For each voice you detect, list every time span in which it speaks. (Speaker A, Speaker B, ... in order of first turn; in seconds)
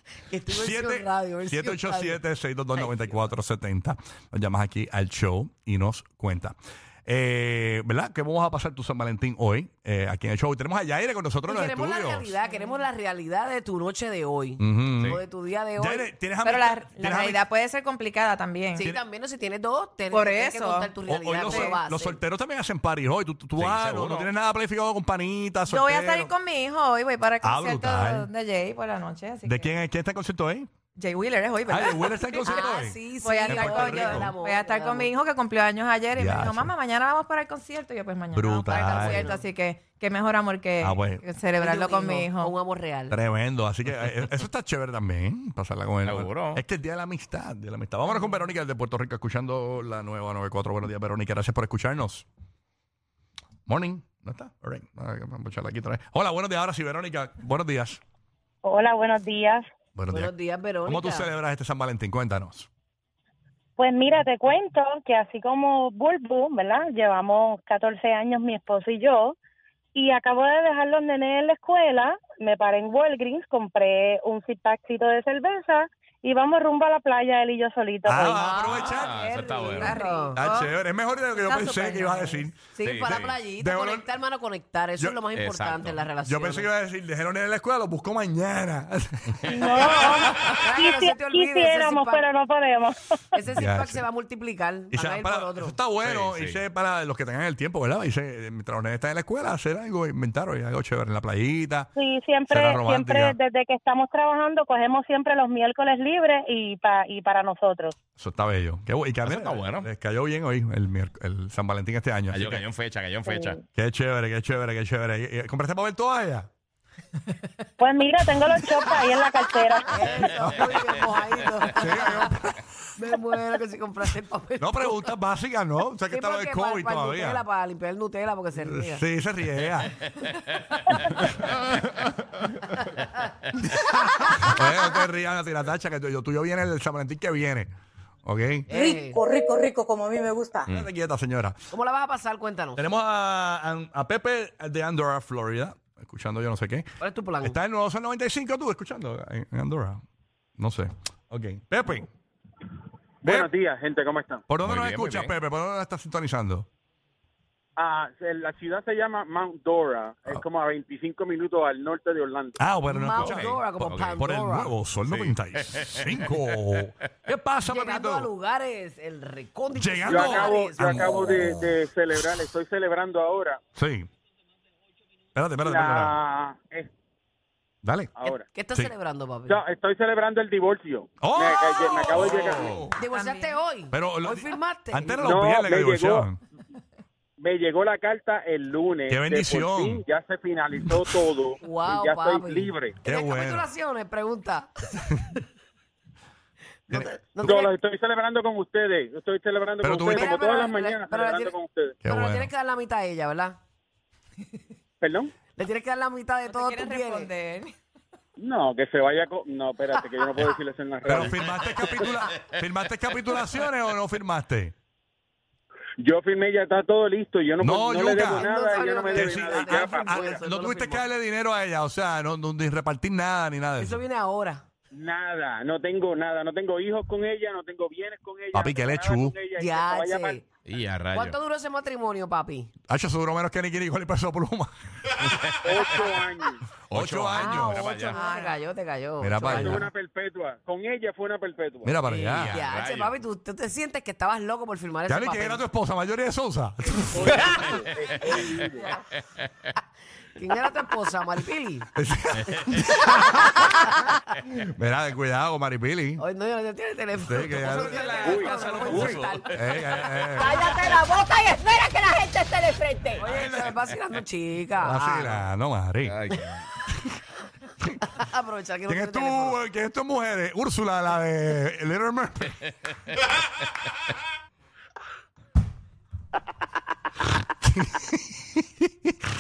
Speaker A: 0.3-2.2, 11.4-16.1, 18.8-22.2, 32.5-35.1, 38.7-39.5, 41.6-43.2, 60.1-61.3, 78.3-78.9, 79.7-80.4, 82.8-86.7, 90.6-92.3, 93.3-95.8, 119.9-122.3, 123.0-125.1, 126.1-129.1, 138.7-139.2, 141.7-142.8, 147.0-147.6, 162.9-164.7, 167.6-171.6, 178.2-179.6, 182.9-185.3, 191.6-195.3, 196.9-197.7, 200.1-201.5, 202.1-203.6, 205.6-207.3, 209.9-210.5, 218.2-221.1, 223.8-224.7, 229.6-230.4, 231.1-232.7, 237.3-239.8, 242.1-245.6, 250.4-251.9, 253.1-253.8, 256.2-259.6, 260.3-261.3, 263.1-265.4, 268.2-269.6
Speaker B: 0.5-12.3, 14.6-15.2, 15.8-17.4, 21.1-26.3, 27.4-28.3, 29.4-30.7, 31.7-34.3, 36.2-36.7, 38.3-39.3, 40.8-41.2, 43.1-52.3, 53.7-58.0, 60.0-60.3, 60.9-62.7, 78.0-79.3, 80.4-84.1, 85.0-85.3, 86.2-90.1, 93.5-94.0, 94.9-101.9, 102.5-103.4, 108.2-112.6, 113.7-116.5, 120.3-120.8, 121.8-122.6, 124.6-127.4, 128.5-130.0, 131.1-132.8, 133.6-137.7, 138.2-138.7, 140.7-141.6, 142.8-146.9, 147.4-150.0, 150.6-152.1, 153.2-153.5, 154.5-156.7, 162.6-168.3, 169.8-171.7, 173.8-174.1, 175.3-176.2, 177.8-178.1, 181.2-182.9, 183.9-186.4, 189.1-190.0, 190.8-191.2, 193.0-193.7, 196.9-197.4, 199.8-200.4, 202.0-202.5, 211.1-214.7, 217.6-218.5, 219.1-224.0, 228.5-229.4, 232.9-235.3, 236.9-237.9, 239.2-239.9, 241.8-242.6, 245.1-247.8, 252.0-256.2, 257.2-260.9, 263.2-263.9, 264.8-266.2, 268.9-272.6, 277.7-279.1
Speaker C: 12.4-12.8, 16.4-18.9, 20.1-20.9, 21.5-21.8, 25.7-29.7, 30.9-42.5, 78.8-80.8, 81.3-82.6, 183.1-183.6, 206.5-207.8, 238.1-238.6
Speaker D: 23.6-24.3, 46.0-46.6, 78.7-79.9, 82.8-83.4, 85.3-86.1, 95.9-96.6, 109.2-109.9, 112.3-113.6, 154.6-155.4, 163.4-164.2, 165.1-166.9, 230.7-231.4, 235.2-236.0, 236.9-238.2, 242.1-243.1, 247.6-248.2, 257.9-259.4, 266.1-266.7
Speaker E: 58.6-59.6, 63.8-69.4, 70.0-78.7, 89.5-93.0, 102.0-107.9, 113.3-113.6, 117.8-120.3
Speaker F: 138.8-140.7, 260.5-263.1
Speaker G: 153.2-154.5, 157.8-162.6, 170.1-173.6, 175.6-176.9, 178.2-178.5, 179.5-182.9, 185.2-186.3, 187.4-193.0, 197.4-202.0, 205.0-205.3, 208.4-211.4, 216.0-220.4, 224.9-230.4, 235.6-236.6, 239.4-242.0, 247.1-248.9, 258.2-259.1